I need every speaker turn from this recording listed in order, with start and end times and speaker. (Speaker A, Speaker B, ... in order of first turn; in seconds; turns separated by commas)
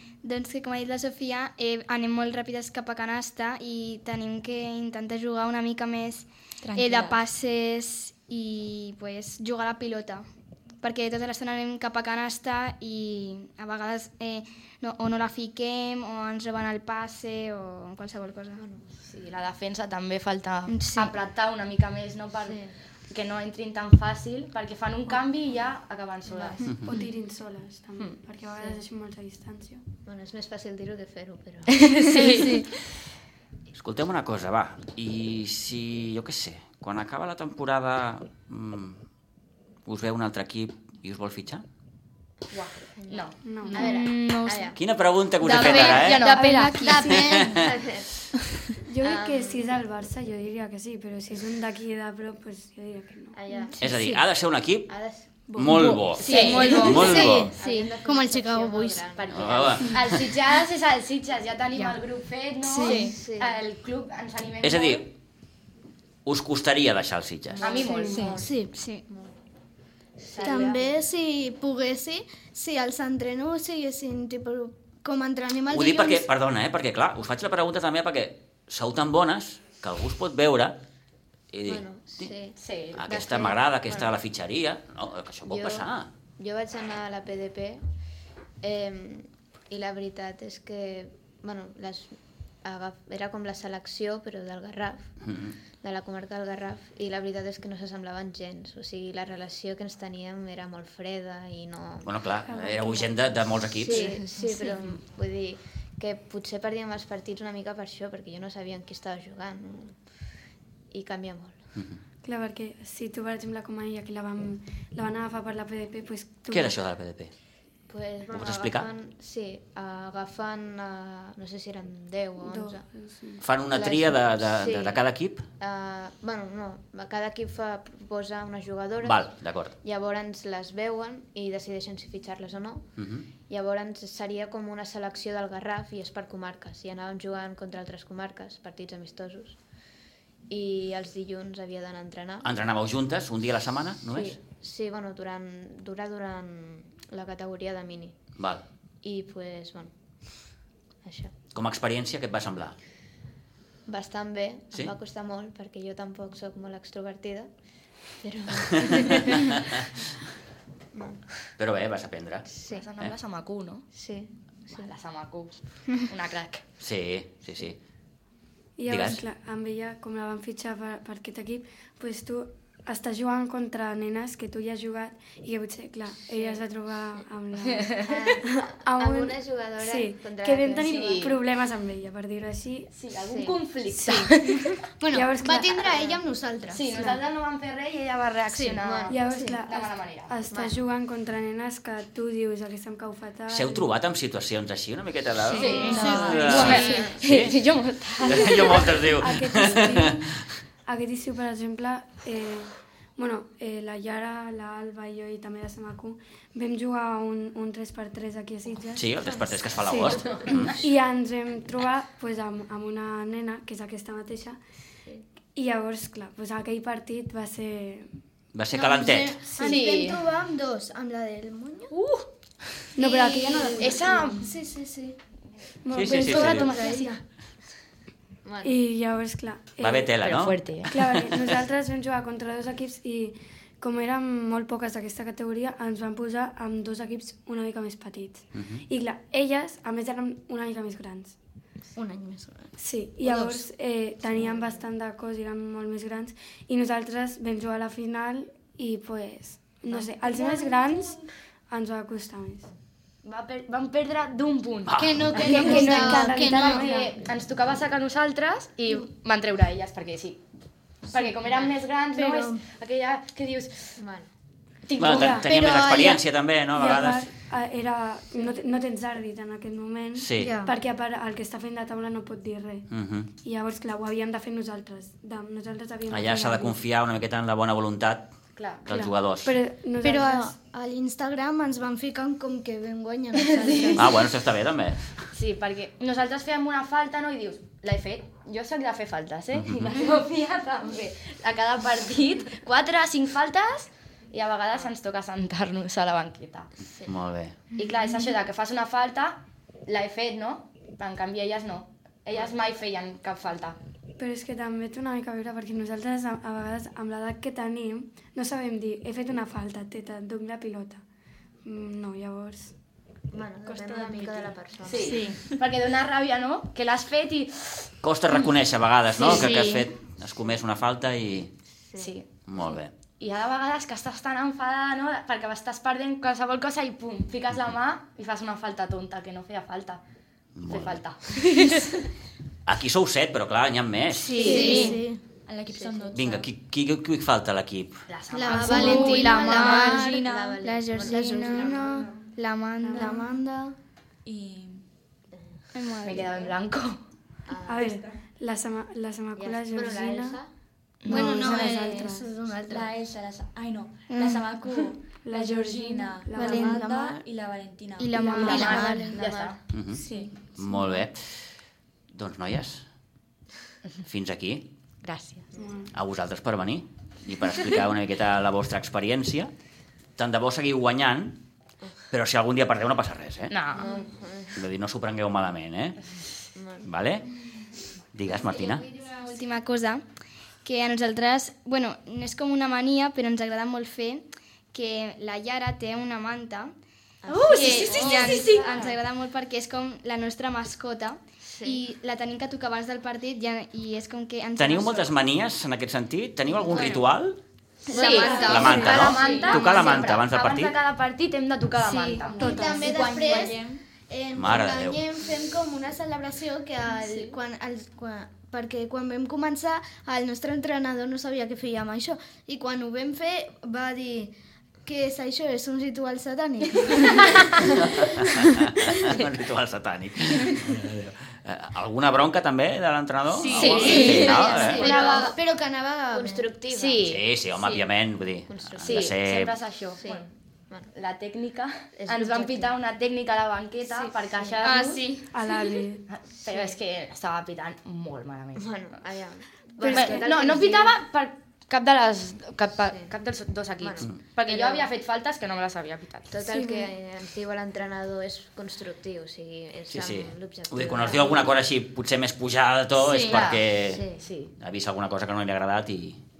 Speaker A: 0.2-10.2, Speaker B: 6.6-7.2, Speaker A: 10.8-18.6, Speaker C: 18.6-18.8, Speaker D: 19.0-26.6, Speaker A: 20.7-21.1, Speaker C: 22.4-22.7, Speaker C: 26.3-26.7, Speaker E: 26.6-26.9, Speaker F: 26.8-29.8, Speaker C: 30.0-32.3, Speaker D: 31.8-32.7, Speaker E: 33.7-39.0, Speaker E: 39.9-41.6, Speaker D: 42.5-44.0, Speaker C: 43.0-44.8, Speaker F: 43.4-43.9, Speaker A: 43.7-44.7, Speaker E: 44.7-46.4, Speaker D: 45.4-47.2, Speaker A: 45.6-47.0, Speaker F: 45.6-47.5, Speaker G: 47.0-47.5, Speaker E: 47.0-47.8, Speaker C: 47.5-48.1, Speaker F: 48.8-53.6, Speaker C: 49.0-49.8, Speaker C: 53.3-53.7, Speaker B: 53.8-54.2, Speaker E: 53.8-55.0, Speaker C: 54.9-55.3, Speaker E: 55.5-57.5, Speaker B: 55.5-56.7, Speaker F: 55.5-56.0, Speaker G: 56.2-59.1, Speaker D: 56.2-57.9, Speaker A: 56.4-56.9, Speaker C: 56.6-57.0, Speaker C: 57.6-59.8, Speaker D: 59.1-65.1, Speaker E: 59.3-60.2, Speaker A: 62.7-63.1, Speaker B: 62.8-63.1, Speaker C: 62.9-63.6, Speaker E: 64.6-65.1, Speaker E: 66.2-67.6, Speaker C: 67.5-69.4, Speaker D: 67.6-68.2, Speaker F: 67.8-68.3, Speaker B: 68.1-68.4, Speaker G: 68.3-68.7, Speaker A: 68.7-69.0, Speaker D: 70.2-70.7, Speaker C: 70.3-71.1, Speaker G: 70.4-76.2, Speaker E: 75.7-80.8, Speaker E: 81.5-82.3, Speaker C: 81.6-82.6, Speaker D: 82.6-83.5, Speaker E: 82.9-86.1, Speaker C: 85.5-87.8, Speaker C: 88.6-95.1, Speaker E: 95.2-95.5, Speaker C: 95.8-102.1, Speaker E: 102.0-104.2, Speaker F: 102.5-103.1, Speaker C: 103.7-110.0, Speaker C: 110.9-111.6, Speaker F: 112.2-116.8, Speaker E: 116.5-117.3, Speaker C: 117.9-122.8, Speaker E: 118.3-118.9, Speaker F: 122.4-123.4, Speaker E: 123.4-125.4, Speaker C: 123.7-125.0, Speaker C: 125.6-132.9, Speaker E: 129.0-129.8, Speaker E: 133.0-133.2, Speaker C: 133.5-139.6, Speaker C: 140.5-142.5, Speaker E: 142.4-144.4, Speaker C: 144.1-148.2, Speaker E: 148.4-148.6, Speaker C: 149.0-149.9, Speaker C: 151.0-151.3, Speaker E: 151.5-152.8, Speaker C: 153.8-157.5, Speaker C: 158.2-159.6, Speaker E: 158.6-159.6, Speaker C: 160.9-161.2, Speaker E: 161.6-162.5, Speaker C: 162.5-162.9, Speaker D: 162.7-163.8, Speaker C: 163.9-164.9, Speaker D: 164.7-166.6, Speaker E: 166.8-167.8, Speaker F: 168.8-182.9, Speaker E: 168.9-169.2, Speaker D: 177.7-178.0, Speaker C: 178.0-181.2, Speaker D: 180.8-181.4, Speaker D: 182.9-184.7, Speaker C: 183.3-183.6, Speaker G: 185.0-187.1, Speaker F: 185.1-185.8, Speaker C: 185.9-186.2, Speaker D: 186.7-190.3, Speaker F: 186.9-187.2, Speaker G: 188.5-189.6, Speaker C: 188.8-189.2, Speaker F: 189.1-193.9, Speaker C: 190.5-190.8, Speaker E: 193.5-197.6, Speaker B: 195.4-196.7, Speaker D: 195.5-198.9, Speaker F: 195.6-196.9, Speaker G: 195.7-196.6, Speaker A: 195.8-197.0, Speaker E: 198.2-200.4, Speaker F: 198.2-200.3, Speaker F: 200.9-209.1, Speaker E: 208.9-210.7, Speaker C: 209.3-210.7, Speaker F: 209.8-214.6, Speaker F: 215.5-218.1, Speaker E: 218.5-219.4, Speaker G: 218.7-221.9, Speaker D: 219.6-220.2, Speaker D: 221.9-222.2, Speaker F: 222.9-224.5, Speaker G: 223.0-225.2, Speaker D: 223.8-224.5, Speaker F: 225.8-227.2, Speaker E: 225.9-226.7, Speaker D: 226.1-227.0, Speaker G: 226.4-227.2, Speaker C: 228.4-228.8, Speaker F: 228.6-230.1, Speaker E: 229.8-231.6, Speaker D: 230.2-230.9, Speaker F: 230.9-241.4, Speaker E: 238.5-238.8, Speaker G: 241.9-243.6, Speaker F: 242.8-252.7, Speaker D: 249.9-251.1, Speaker D: 253.2-260.4, Speaker E: 254.9-255.7, Speaker G: 255.0-256.9, Speaker F: 255.4-257.2, Speaker G: 261.1-262.6, Speaker D: 261.1-264.0, Speaker C: 264.0-264.3, Speaker D: 264.9-265.4, Speaker E: 265.0-267.3, Speaker F: 265.1-265.5, Speaker G: 265.4-266.2, Speaker F: 266.7-272.9, Speaker E: 270.1-270.6, Speaker G: 270.4-270.7, Speaker E: 272.9-273.3, Speaker F: 273.4-276.8, Speaker E: 276.1-278.3, Speaker D: 278.6-278.9, Speaker E: 278.8-279.6, Speaker F: 278.9-280.6, Speaker G: 280.0-284.2, Speaker D: 283.3-284.1, Speaker E: 283.9-285.0, Speaker D: 285.3-296.7, Speaker E: 289.5-290.0, Speaker E: 297.1-297.6, Speaker D: 297.8-303.8, Speaker F: 304.2-311.0, Speaker F: 311.6-312.7, Speaker C: 313.3-315.3, Speaker B: 313.6-314.5, Speaker D: 314.8-317.9, Speaker A: 315.1-315.4, Speaker E: 318.0-321.5, Speaker A: 319.2-319.9, Speaker D: 319.2-319.4, Speaker C: 321.9-322.7, Speaker D: 321.9-322.3, Speaker E: 322.5-322.9, Speaker D: 323.2-330.0, Speaker E: 330.5-331.0, Speaker D: 330.7-331.9, Speaker E: 332.6-334.5, Speaker A: 334.1-335.0, Speaker D: 334.3-335.0, Speaker G: 334.4-335.2, Speaker B: 334.4-336.4, Speaker C: 335.7-336.4, Speaker E: 336.1-338.0, Speaker D: 338.1-339.5, Speaker G: 338.3-340.2, Speaker C: 338.6-342.1, Speaker A: 338.6-341.8, Speaker B: 338.7-340.6, Speaker G: 341.0-342.1, Speaker A: 342.4-343.3, Speaker F: 342.8-343.3, Speaker G: 342.9-343.8, Speaker B: 344.2-344.8, Speaker A: 345.7-346.4, Speaker D: 346.0-347.0, Speaker C: 347.4-348.1, Speaker F: 347.6-350.4, Speaker C: 349.4-350.5, Speaker D: 351.0-351.5, Speaker G: 351.1-352.9, Speaker F: 351.1-352.3, Speaker B: 351.4-352.0, Speaker A: 351.5-351.7, Speaker B: 352.6-358.7, Speaker A: 354.1-354.5, Speaker F: 355.2-356.9, Speaker A: 356.4-356.8, Speaker G: 356.4-357.2, Speaker A: 358.0-359.2, Speaker F: 358.1-358.9, Speaker G: 358.4-359.1, Speaker D: 358.4-359.6, Speaker C: 359.1-359.6, Speaker E: 359.7-361.5, Speaker B: 359.9-361.1, Speaker E: 362.1-362.8, Speaker E: 364.1-364.7, Speaker D: 365.0-365.5, Speaker F: 365.6-365.9, Speaker E: 365.9-369.5, Speaker E: 370.2-371.4, Speaker E: 372.1-373.6, Speaker D: 373.5-373.9, Speaker C: 373.7-374.6, Speaker E: 374.5-376.0, Speaker C: 376.5-376.9, Speaker E: 376.8-377.3, Speaker E: 378.1-378.8, Speaker B: 378.5-379.3, Speaker A: 378.9-380.0, Speaker A: 380.6-386.7, Speaker C: 387.2-388.9, Speaker D: 387.3-388.8, Speaker A: 387.4-395.1, Speaker C: 391.4-391.8, Speaker E: 394.6-397.4, Speaker C: 396.5-397.1, Speaker A: 397.9-399.6, Speaker D: 397.9-402.5, Speaker B: 397.9-400.0, Speaker E: 398.4-400.7, Speaker A: 401.8-402.5, Speaker B: 402.2-403.8, Speaker G: 402.4-417.8, Speaker F: 402.6-402.9, Speaker E: 404.3-405.0, Speaker B: 407.0-407.3, Speaker D: 416.8-417.6, Speaker E: 417.6-424.9, Speaker B: 423.3-424.9, Speaker G: 423.4-426.5, Speaker D: 423.5-425.3, Speaker A: 423.9-424.4, Speaker C: 424.5-425.4, Speaker C: 426.1-427.0, Speaker D: 426.7-427.7, Speaker E: 427.0-429.6, Speaker C: 428.5-429.1, Speaker D: 428.8-430.3, Speaker C: 430.0-430.9, Speaker D: 430.9-435.2, Speaker C: 431.9-432.8, Speaker A: 434.6-435.6, Speaker F: 435.3-436.0, Speaker D: 436.1-438.8, Speaker C: 436.4-436.8, Speaker C: 438.6-440.9, Speaker F: 439.8-440.6, Speaker D: 439.9-446.4, Speaker C: 442.9-443.1, Speaker C: 443.8-444.9, Speaker C: 446.3-451.6, Speaker A: 446.5-446.9, Speaker E: 449.9-454.1, Speaker D: 453.0-454.5, Speaker C: 453.8-454.2, Speaker E: 454.6-456.2